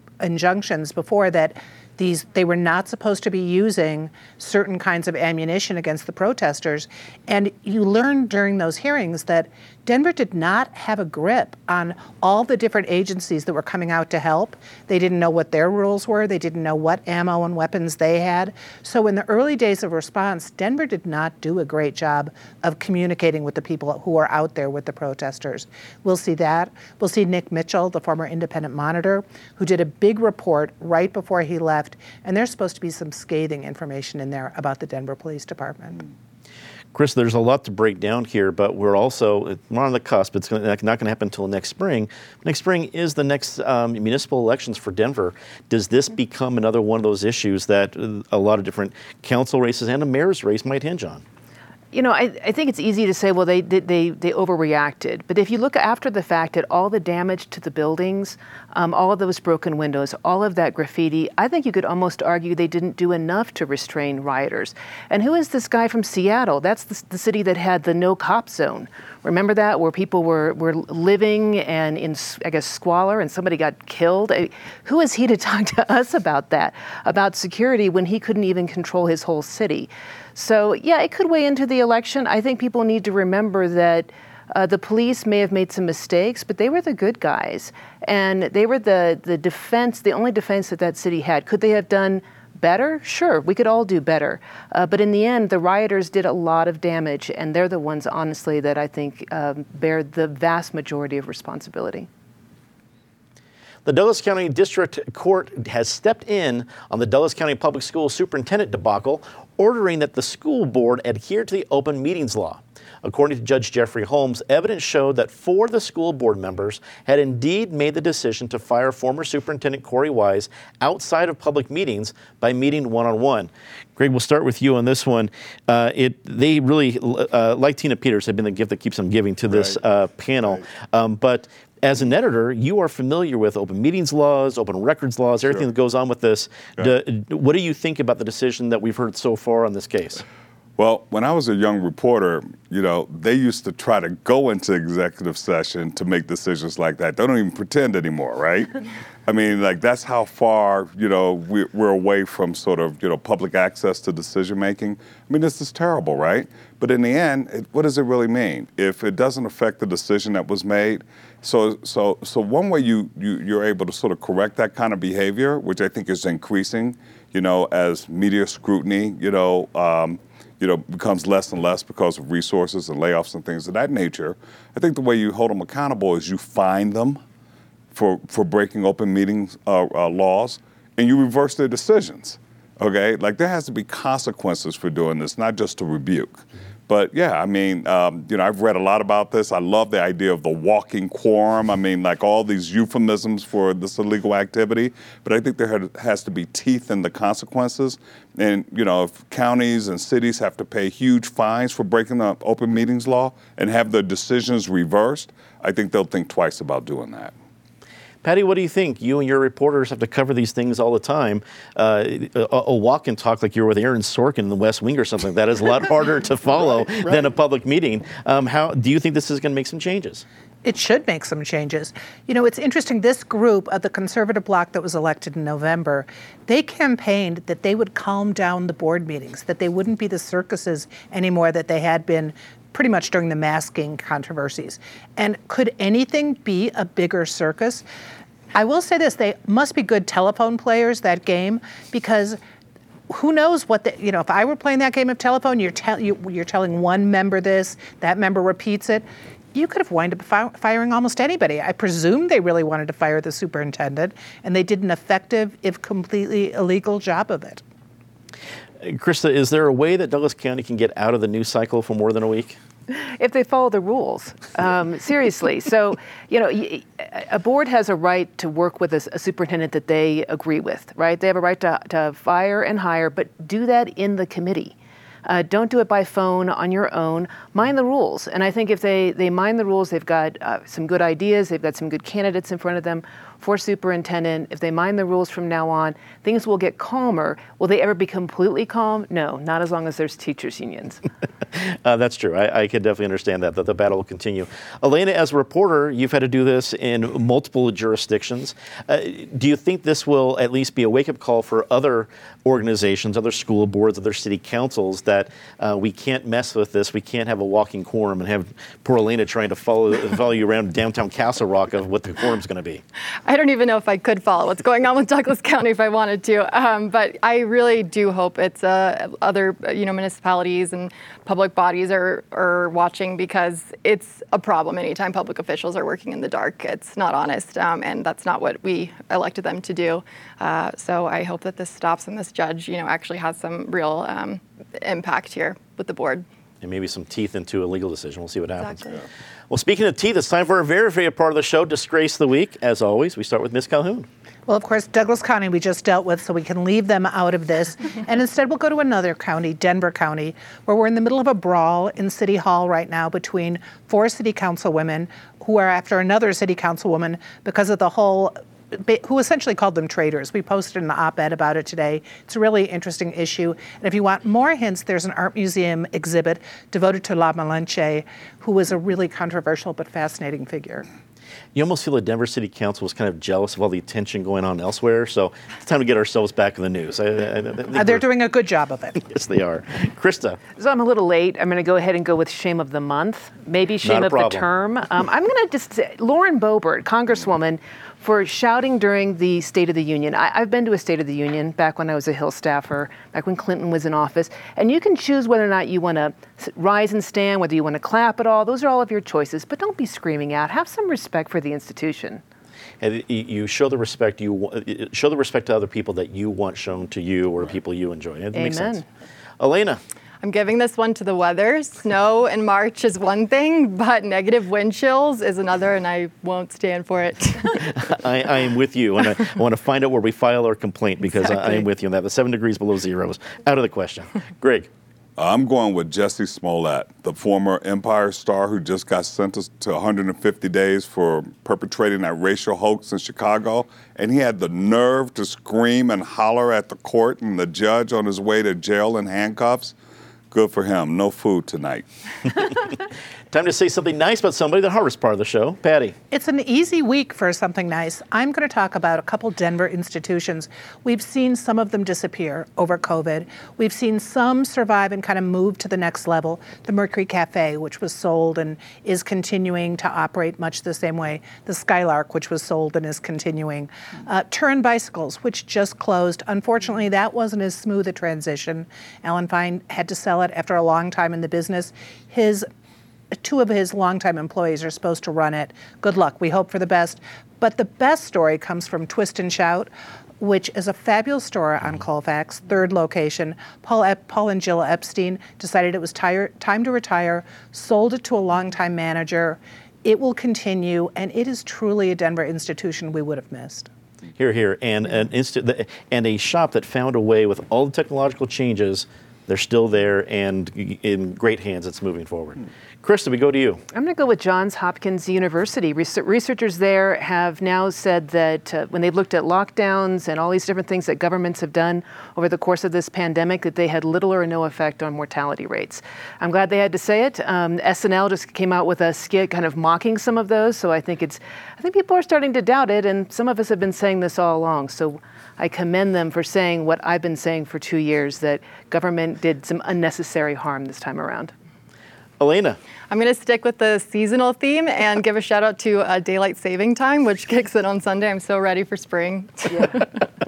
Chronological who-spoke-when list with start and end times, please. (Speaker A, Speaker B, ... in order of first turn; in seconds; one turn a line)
Speaker A: 0.2-36.0
Speaker B: 36.9-51.2
Speaker C: 51.9-102.1
Speaker B: 103.8-140.2
Speaker D: 140.8-177.2
Speaker D: 177.9-207.3
Speaker B: 208.2-220.2
Speaker A: 220.6-237.8
Speaker A: 238.5-242.4
Speaker A: 243.1-257.6
Speaker B: 258.8-262.6
Speaker C: 262.9-291.0
Speaker B: 291.6-312.8
Speaker E: 313.2-336.2
Speaker B: 336.6-344.1
Speaker E: 338.6-338.9
Speaker A: 344.5-370.9
Speaker B: 371.5-378.0
Speaker A: 377.7-379.0
Speaker B: 379.0-380.4
Speaker C: 380.6-402.2
Speaker B: 383.8-384.4
Speaker B: 402.8-408.8
Speaker C: 408.3-408.8
Speaker B: 409.4-409.8
Speaker E: 410.2-417.9
Speaker B: 417.6-424.7
Speaker D: 425.2-439.7
Speaker D: 440.3-441.9
Speaker B: 443.3-445.9
Speaker A: 446.1-472.4
Speaker A: 473.1-479.7
Speaker A: 480.2-493.7
Speaker B: 494.2-503.6
Speaker C: 503.7-531.3
Speaker B: 532.2-532.6
Speaker E: 532.9-540.0